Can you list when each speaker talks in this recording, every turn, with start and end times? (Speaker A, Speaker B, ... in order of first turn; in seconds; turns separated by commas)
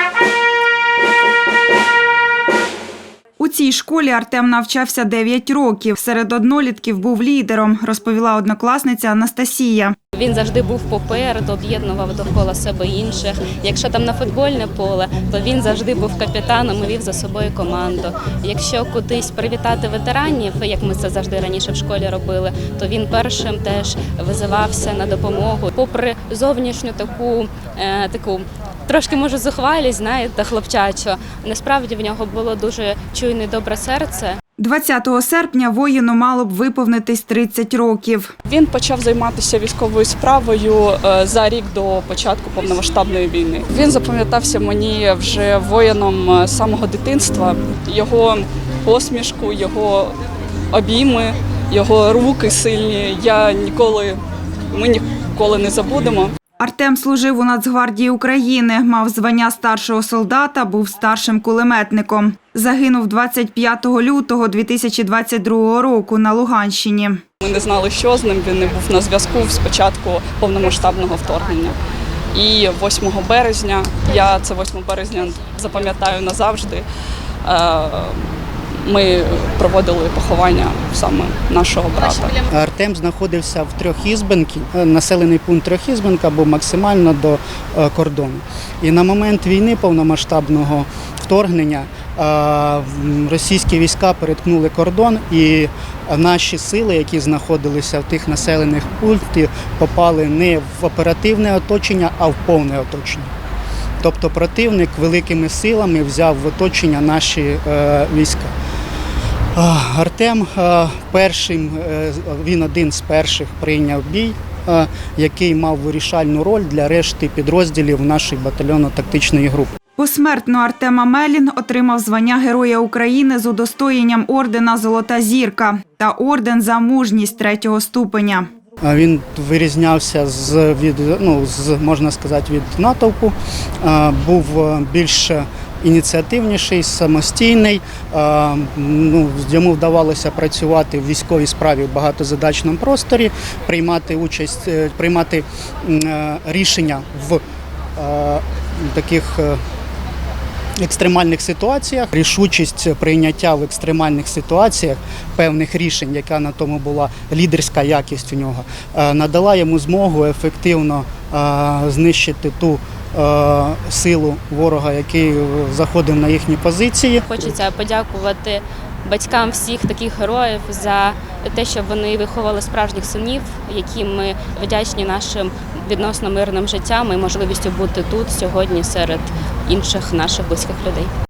Speaker A: 3.4-10.0, Speaker B: 10.1-34.4, Speaker A: 34.6-38.3, Speaker C: 38.5-50.1, Speaker C: 50.7-54.2, Speaker C: 54.7-56.4, Speaker A: 56.6-67.2, Speaker C: 67.4-71.8, Speaker C: 72.3-76.9, Speaker C: 77.4-82.5, Speaker D: 82.5-103.3, Speaker D: 104.0-108.5, Speaker D: 109.5-119.8, Speaker A: 120.0-128.5, Speaker D: 128.8-147.4, Speaker D: 148.0-149.6, Speaker D: 150.8-167.2, Speaker B: 167.2-181.1